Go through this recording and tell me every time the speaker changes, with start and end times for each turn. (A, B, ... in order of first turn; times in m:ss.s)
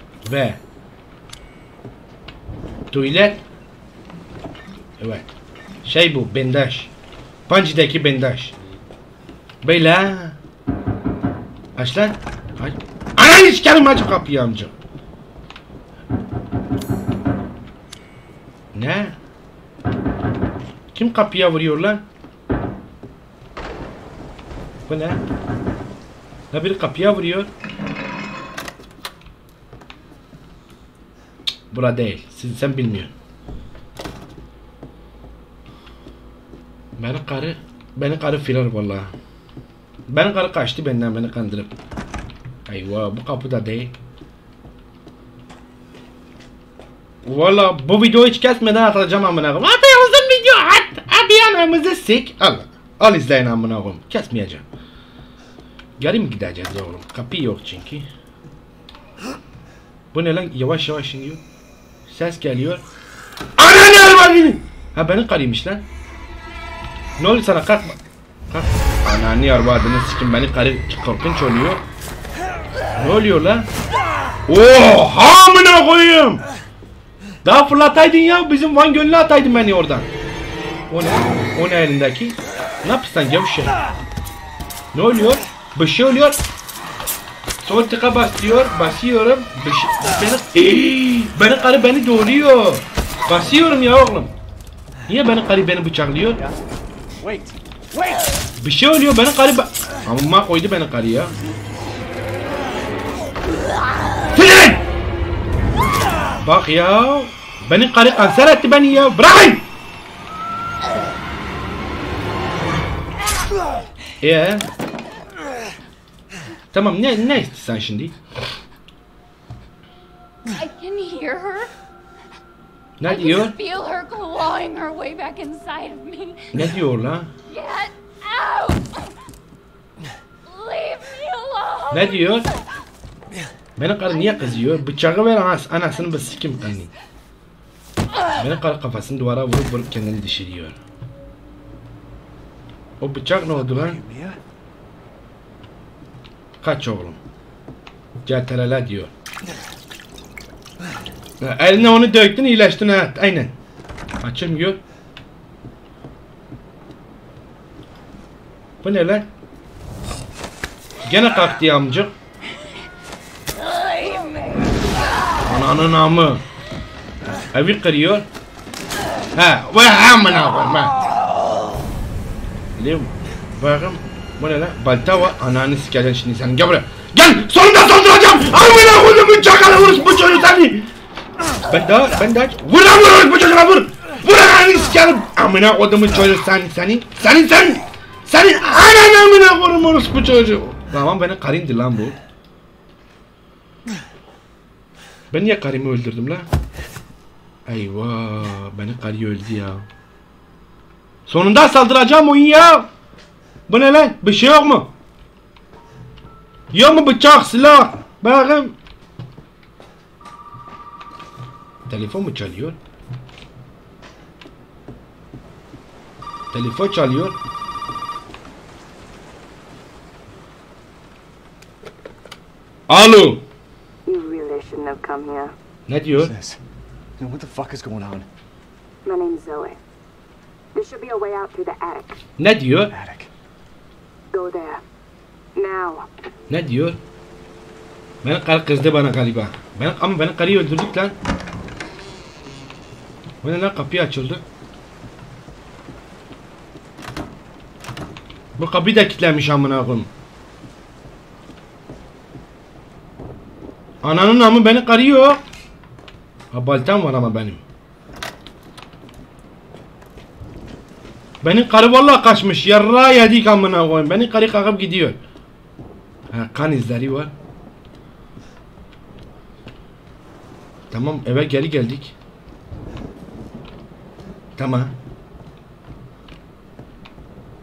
0:00.2-0:00.6 A
0:02.9-0:03.4 A
0:05.0-0:05.3 A
0:05.8-0:06.9 A
0:07.5-0:08.5 A
0:09.6-0:10.4 A
0:11.8-0:14.7 A
0:18.7-0:19.2 A
0:20.9-0:22.0 A
0:24.9-0:25.2 A
0:26.5-0:27.5 A
0:31.7-0:33.1 A
0:37.0-0:39.1 A
0:40.1-0:41.7 A
0:42.7-0:43.9 A
0:47.2-0:54.6 A
0:56.0-0:58.1 A
1:00.1-1:01.4 A
1:02.1-1:02.8 A
1:03.6-1:05.8 A
1:07.2-1:08.0 A
1:08.5-1:11.8 A
1:13.0-1:13.7 A
1:14.5-1:16.4 A
1:17.4-1:20.1 A
1:20.9-1:23.7 A
1:24.9-1:26.4 A
1:27.6-1:34.3 A
1:35.1-1:36.4 A
1:36.3-1:36.6 B
1:37.2-1:38.2 B
1:38.6-1:41.3 A
1:44.3-1:44.8 A
1:46.4-1:49.6 A
1:54.2-1:54.7 A
1:56.7-1:58.2 A
2:00.5-2:01.7 C
2:03.0-2:03.6 A
2:03.0-2:06.6 C
2:06.5-2:07.3 A
2:07.5-2:09.1 C
2:10.4-2:12.4 C
2:11.9-2:12.5 A
2:13.8-2:16.9 A
2:14.2-2:14.5 C
2:16.0-2:16.5 C
2:18.4-2:20.8 A
2:23.0-2:24.0 A
2:23.4-2:24.4 B
2:26.6-2:27.2 A
2:28.2-2:29.1 A
2:31.4-2:33.5 A
2:34.2-2:34.8 A
2:38.8-2:39.3 A
2:41.0-2:42.1 A
2:44.0-2:44.3 C
2:45.4-2:46.4 A
2:47.5-2:48.3 A
2:49.4-2:50.9 A
2:52.8-3:00.9 A
3:01.7-3:12.2 A
3:15.3-3:16.5 A
3:17.7-3:19.8 A
3:21.3-3:22.9 A
3:23.7-3:24.9 A
3:26.7-3:28.7 A
3:31.9-3:32.8 A
3:36.5-3:37.4 A
3:42.9-3:43.4 A
3:44.0-3:45.5 D
3:45.9-3:46.3 A
3:46.1-3:46.6 B
3:47.2-3:48.3 B
3:49.0-3:49.8 D
3:50.7-3:52.2 D
3:52.4-3:52.9 A
3:52.9-3:53.3 B
3:54.3-3:54.8 D
3:55.6-3:56.1 D
3:56.5-3:57.0 A
3:58.2-4:01.1 A
4:03.4-4:04.4 A
4:08.6-4:10.1 A
4:14.0-4:15.4 A
4:16.5-4:17.6 A
4:21.4-4:25.2 A
4:26.3-4:27.3 A
4:30.9-4:32.1 A
4:34.6-4:34.9 A